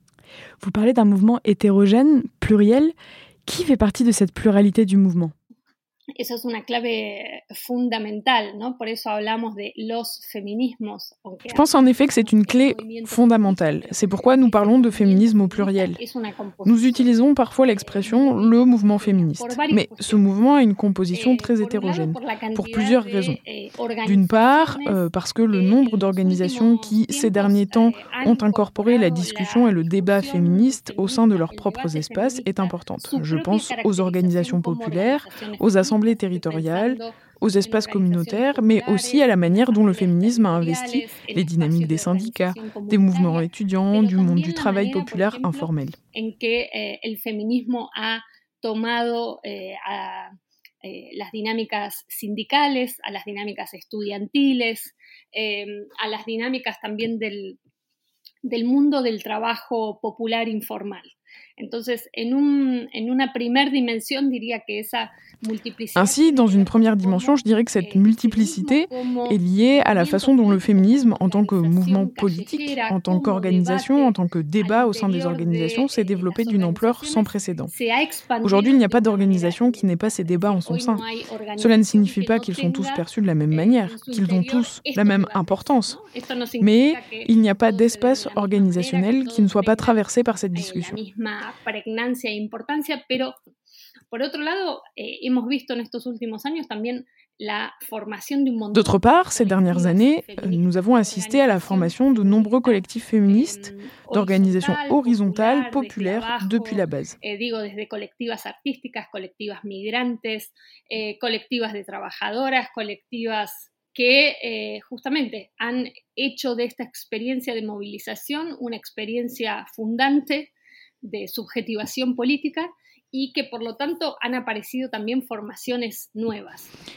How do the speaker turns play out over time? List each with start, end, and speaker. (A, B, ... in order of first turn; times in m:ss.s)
0:00.6-0:02.9 A
0:03.5-0:05.3 A
0:06.2-0:17.2 B
0:11.5-0:16.0 C
0:16.6-0:23.4 C
0:17.8-0:20.2 B
0:21.1-0:57.6 B
0:24.0-0:46.0 C
0:58.5-1:33.4 B
1:06.0-1:17.7 C
1:18.4-1:21.0 C
1:21.6-1:26.0 C
1:26.6-1:31.0 C
1:34.1-2:00.5 B
1:38.7-1:47.2 C
2:01.0-2:06.7 B